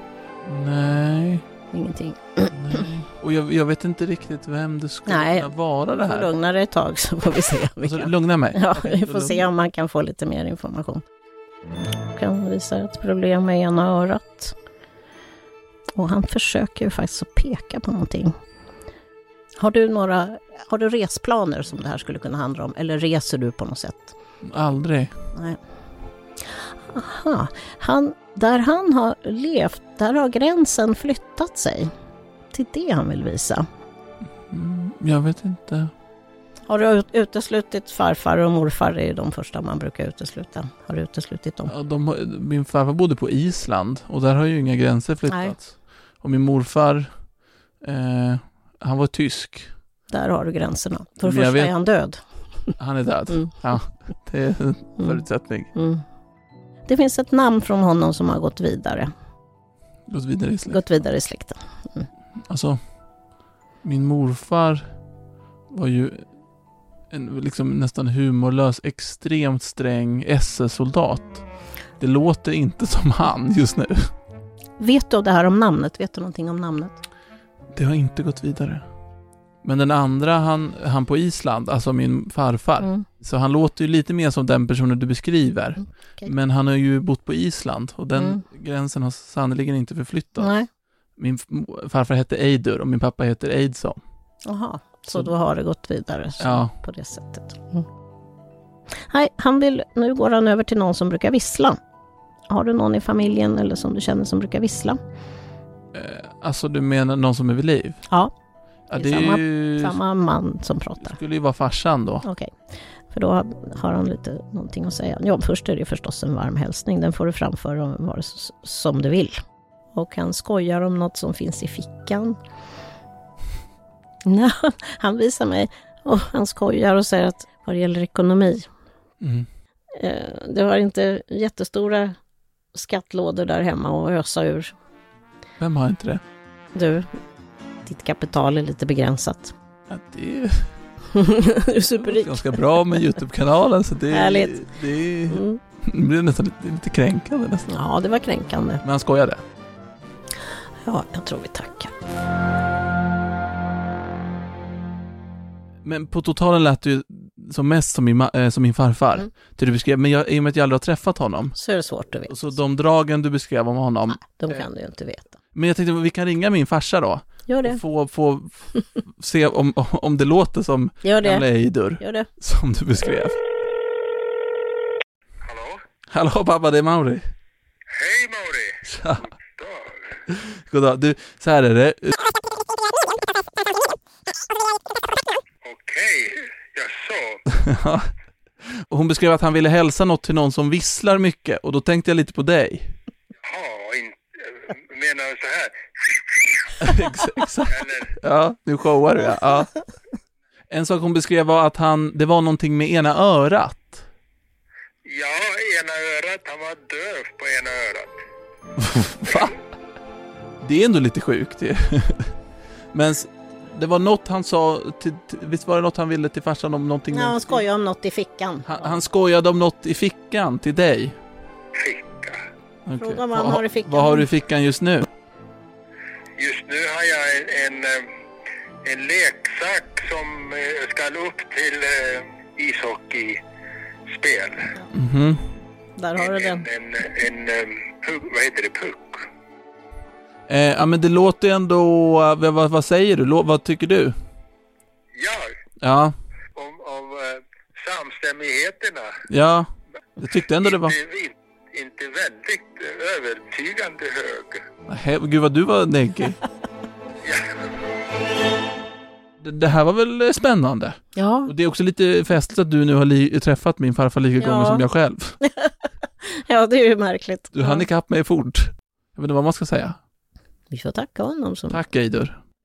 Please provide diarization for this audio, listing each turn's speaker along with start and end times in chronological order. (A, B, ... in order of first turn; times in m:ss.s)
0:00.4-0:01.5 A
0:01.7-0:02.8 B
0:02.5-0:06.3 A
0:05.1-0:05.5 B
0:06.0-0:11.0 B
0:07.8-0:09.5 A
0:12.1-0:14.5 B
0:16.0-0:18.4 B
0:19.6-0:24.2 B
0:24.4-0:25.2 A
0:26.4-0:31.9 B
0:32.5-0:33.7 B
0:34.5-0:35.9 A
0:36.7-0:41.7 B
0:41.7-0:47.1 A
0:45.3-0:45.5 B
0:47.8-0:49.7 A
0:50.1-0:52.2 B
0:51.2-0:51.7 A
0:52.8-0:55.7 A
0:55.8-0:56.0 B
0:56.9-0:59.1 B
1:00.1-1:00.8 A
1:00.7-1:02.1 B
1:02.5-1:02.8 A
1:03.8-1:04.9 A
1:05.7-1:06.2 A
1:07.1-1:11.4 A
1:12.0-1:14.1 A
1:14.8-1:17.0 B
1:17.7-1:18.8 A
1:19.6-1:30.5 A
1:22.8-1:23.1 B
1:28.2-1:28.4 B
1:30.4-1:30.7 B
1:31.2-1:34.0 A
1:34.4-1:37.9 B
1:36.4-1:36.7 A
1:39.0-1:41.8 B
1:42.5-1:45.0 B
1:45.9-1:48.0 A
1:48.9-1:50.0 A
1:48.9-1:51.2 B
1:51.0-1:52.3 A
1:52.2-1:52.6 B
1:53.1-1:59.4 B
2:00.0-2:02.4 B
2:04.2-2:08.7 B
2:09.2-2:09.5 A
2:10.0-2:12.2 B
2:12.7-2:14.7 B
2:15.6-2:16.2 A
2:16.8-2:17.1 B
2:17.9-2:19.5 B
2:19.9-2:20.7 A
2:21.1-2:23.0 B
2:22.0-2:27.8 A
2:24.1-2:24.6 B
2:25.3-2:25.6 B
2:27.7-2:28.8 B
2:28.8-2:29.4 A
2:30.8-2:31.9 B
2:35.8-2:41.6 A
2:41.6-2:42.5 B
2:42.3-2:44.7 A
2:44.2-2:45.4 B
2:45.5-2:48.6 A
2:47.5-2:47.8 B
2:49.2-2:53.4 A
2:51.0-2:51.4 B
2:52.0-2:52.3 B
2:55.4-2:55.8 C
2:56.1-2:57.3 A
2:57.9-3:00.0 C
2:58.9-2:59.3 A
3:00.3-3:02.1 A
3:05.6-3:07.4 C
3:07.5-3:08.1 A
3:08.7-3:13.0 A
3:13.4-3:16.9 C
3:16.8-3:19.7 A
3:17.7-3:18.1 C
3:20.7-3:24.0 A
3:25.0-3:28.2 C
3:28.8-3:29.6 A
3:30.6-3:32.3 A
3:32.9-3:37.6 A
3:37.1-3:39.0 B
3:38.7-3:41.2 A
3:41.7-3:42.4 C
3:42.9-3:45.1 A
3:43.0-3:44.3 B
3:46.4-3:48.1 C
3:48.8-3:53.4 C
3:54.1-3:54.7 C
3:54.9-3:55.4 A
3:56.0-3:56.6 B
3:56.2-3:59.3 C
4:00.5-4:04.2 A
4:05.2-4:05.5 C
4:05.8-4:06.2 A
4:06.6-4:09.2 C
4:09.3-4:11.0 A
4:10.6-4:14.6 C
4:14.9-4:16.4 A
4:17.2-4:17.6 C
4:19.4-4:25.4 A
4:21.2-4:21.5 B
4:24.4-4:24.8 B
4:25.4-4:25.7 B
4:26.2-4:27.8 B
4:27.5-4:30.0 A
4:30.7-4:31.8 B
4:31.7-4:32.4 A